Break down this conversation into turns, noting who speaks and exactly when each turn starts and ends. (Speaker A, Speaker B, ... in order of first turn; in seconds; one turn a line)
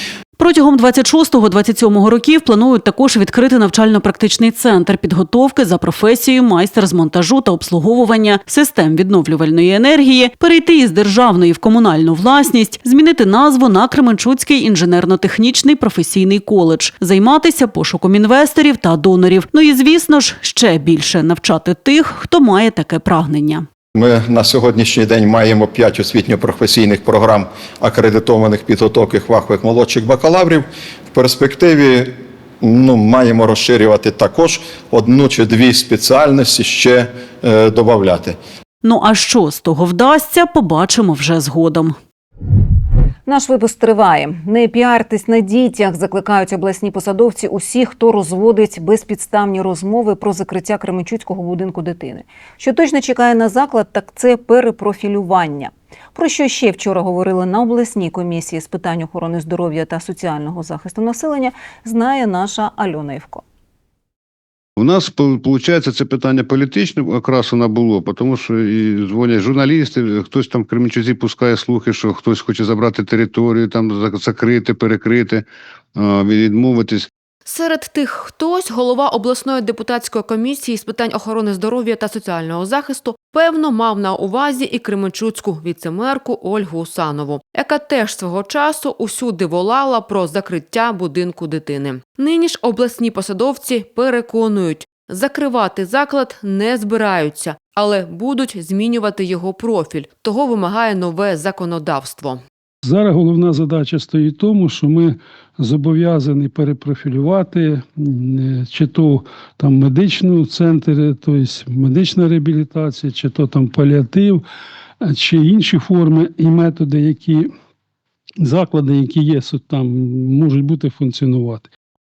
Speaker A: 0.4-23.7
Speaker B: 23.9-38.4
Speaker A: 38.8-42.0
Speaker C: 43.2-63.4
Speaker D: 64.8-77.1
Speaker E: 77.5-102.4
Speaker F: 102.8-114.4
Speaker F: 115.0-117.5
Speaker F: 118.4-121.7